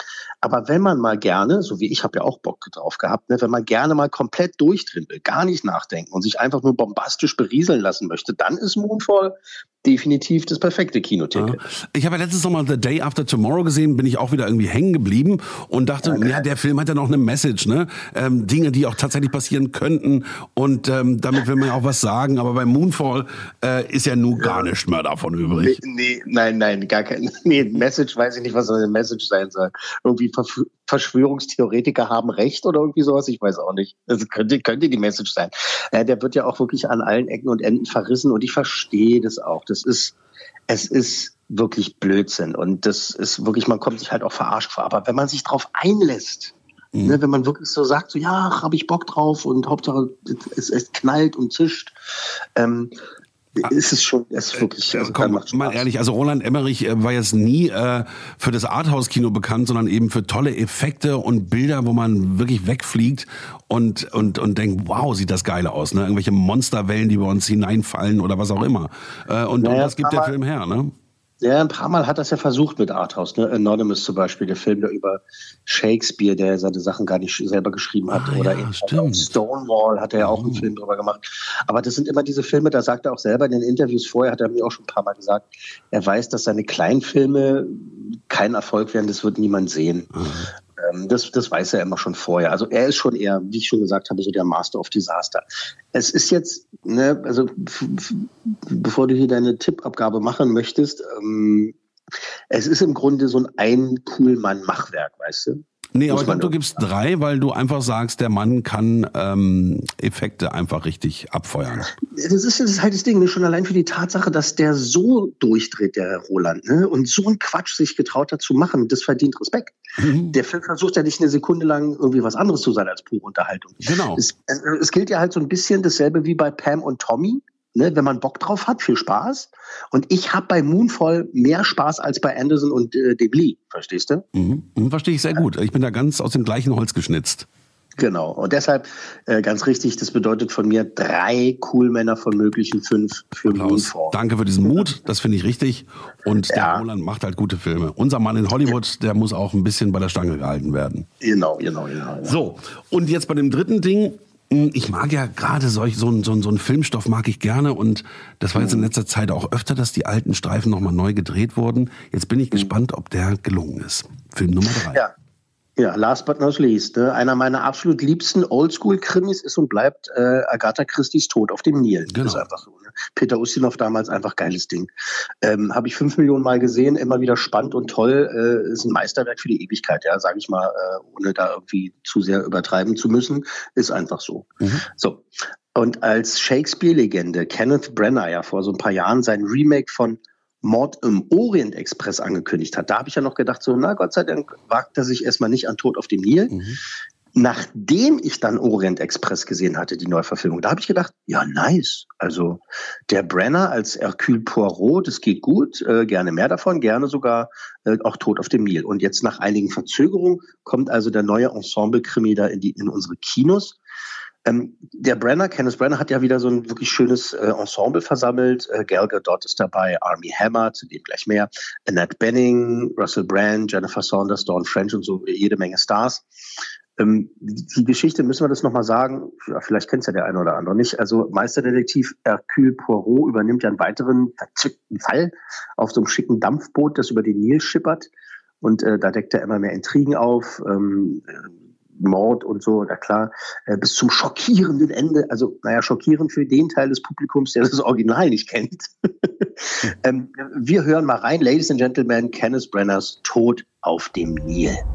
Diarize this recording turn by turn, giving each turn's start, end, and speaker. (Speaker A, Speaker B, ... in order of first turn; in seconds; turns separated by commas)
Speaker A: 0.4-11.6, Speaker B: 11.3-25.8, Speaker A: 16.0-16.4, Speaker A: 24.4-24.7, Speaker A: 25.5-40.2, Speaker A: 40.7-51.9, Speaker B: 46.9-47.2, Speaker A: 52.5-52.9, Speaker A: 53.6-55.9, Speaker B: 54.6-70.9, Speaker A: 69.6-70.3, Speaker A: 71.4-90.1, Speaker B: 78.1-79.3, Speaker B: 80.2-80.7, Speaker B: 90.1-90.5, Speaker A: 90.8-101.7, Speaker A: 102.5-106.8, Speaker B: 105.9-111.9, Speaker A: 112.0-119.8, Speaker B: 120.0-120.4, Speaker A: 120.3-134.2, Speaker B: 123.8-124.2, Speaker B: 134.3-137.5, Speaker A: 138.0-144.1, Speaker B: 143.4-151.1, Speaker A: 146.5-146.8, Speaker A: 151.2-152.3, Speaker B: 152.2-165.0, Speaker A: 158.6-158.9, Speaker A: 165.8-174.9, Speaker B: 172.1-172.4, Speaker A: 175.4-196.5, Speaker B: 196.5-196.8, Speaker A: 197.3-213.8, Speaker A: 214.4-226.2, Speaker A: 227.0-238.1, Speaker A: 238.6-254.8